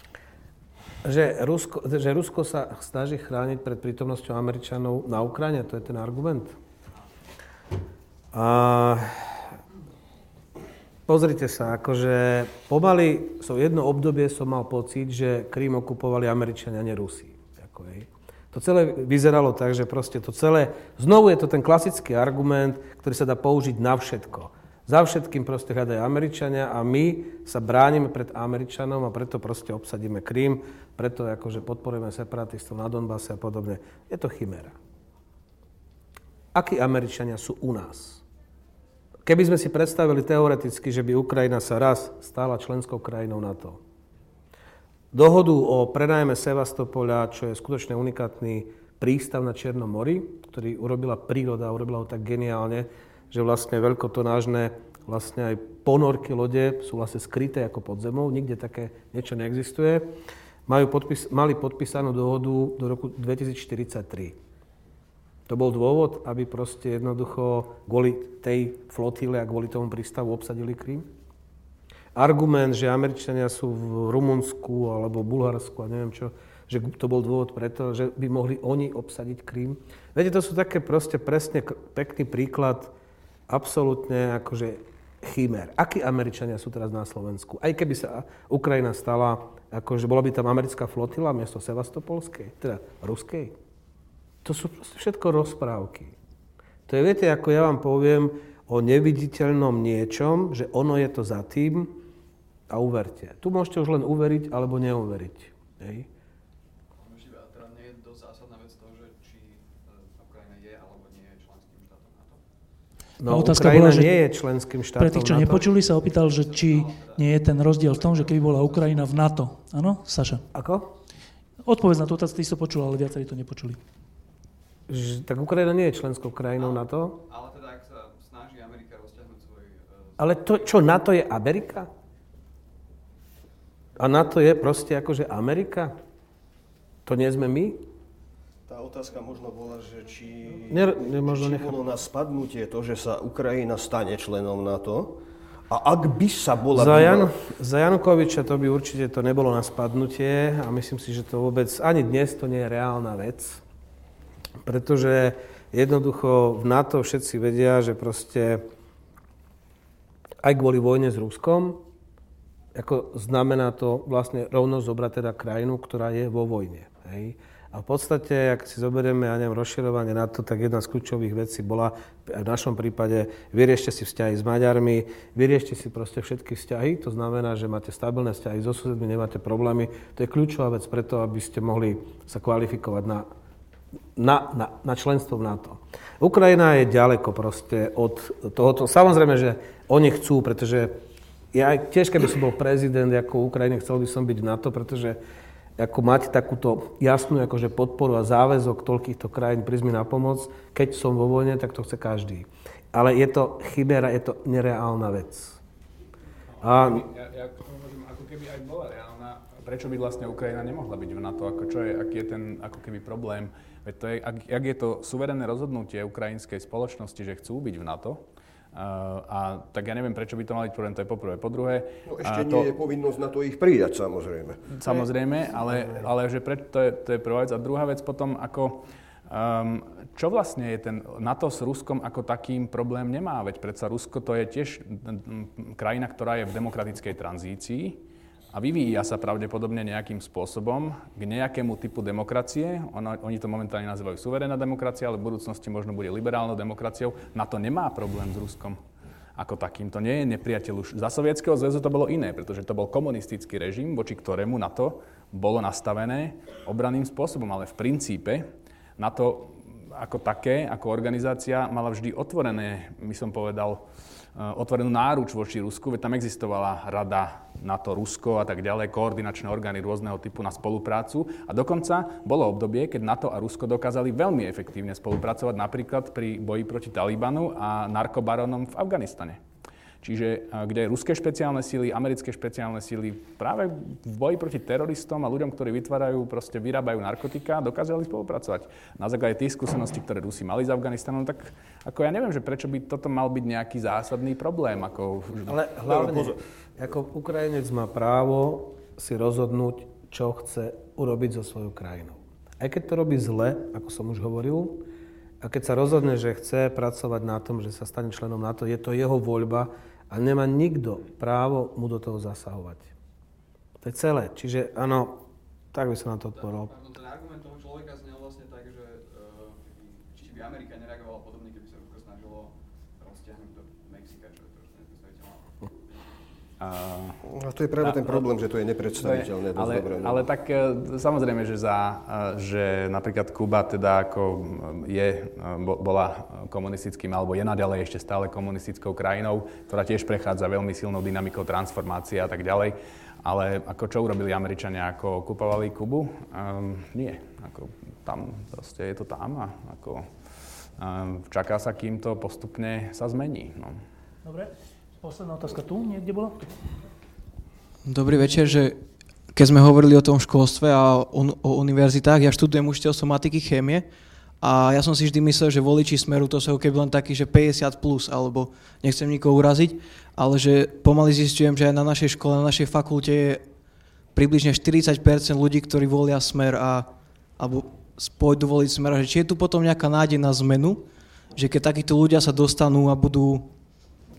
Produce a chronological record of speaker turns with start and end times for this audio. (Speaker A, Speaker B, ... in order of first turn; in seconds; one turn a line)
Speaker A: 1.0-6.6
Speaker A: 8.3-9.4
Speaker A: 11.1-34.8
Speaker A: 36.5-38.2
Speaker A: 39.3-43.8
Speaker A: 45.1-60.1
Speaker A: 60.7-64.4
Speaker A: 65.5-71.1
Speaker A: 72.2-82.9
Speaker A: 83.5-93.5
Speaker A: 94.4-96.1
Speaker A: 96.9-102.0
Speaker A: 102.7-106.1
Speaker B: 107.0-112.4
Speaker A: 113.2-115.7
Speaker C: 113.2-114.2
Speaker C: 115.0-120.5
Speaker B: 116.2-119.0
Speaker A: 120.5-120.9
Speaker C: 121.7-123.8
Speaker A: 124.9-127.2
Speaker B: 126.6-130.6
Speaker A: 130.2-131.9
Speaker A: 134.0-135.9
Speaker A: 137.1-137.8
Speaker D: 138.7-147.3
Speaker A: 140.7-141.8
Speaker A: 146.7-153.6
Speaker A: 154.7-158.6
Speaker A: 160.4-161.8
Speaker A: 162.8-183.3
Speaker A: 184.2-190.9
Speaker A: 191.5-195.2
Speaker A: 195.8-205.6
Speaker E: 206.6-222.7
Speaker A: 206.6-207.0
Speaker D: 222.1-225.0
Speaker E: 224.7-238.0
Speaker E: 238.5-248.8
Speaker E: 249.4-263.9
Speaker E: 264.4-279.4
Speaker E: 280.0-296.1
Speaker A: 295.5-304.8
Speaker A: 305.4-312.9
Speaker A: 313.8-315.2
Speaker A: 315.7-316.7
Speaker B: 316.3-325.5
Speaker E: 326.6-327.2
Speaker D: 327.3-330.3
Speaker E: 327.8-328.3
Speaker E: 328.9-350.1
Speaker E: 350.8-353.8
Speaker C: 354.2-356.6
Speaker F: 357.9-358.8
Speaker F: 359.3-363.9
Speaker F: 364.4-373.4
Speaker F: 374.1-380.8
Speaker F: 381.4-383.5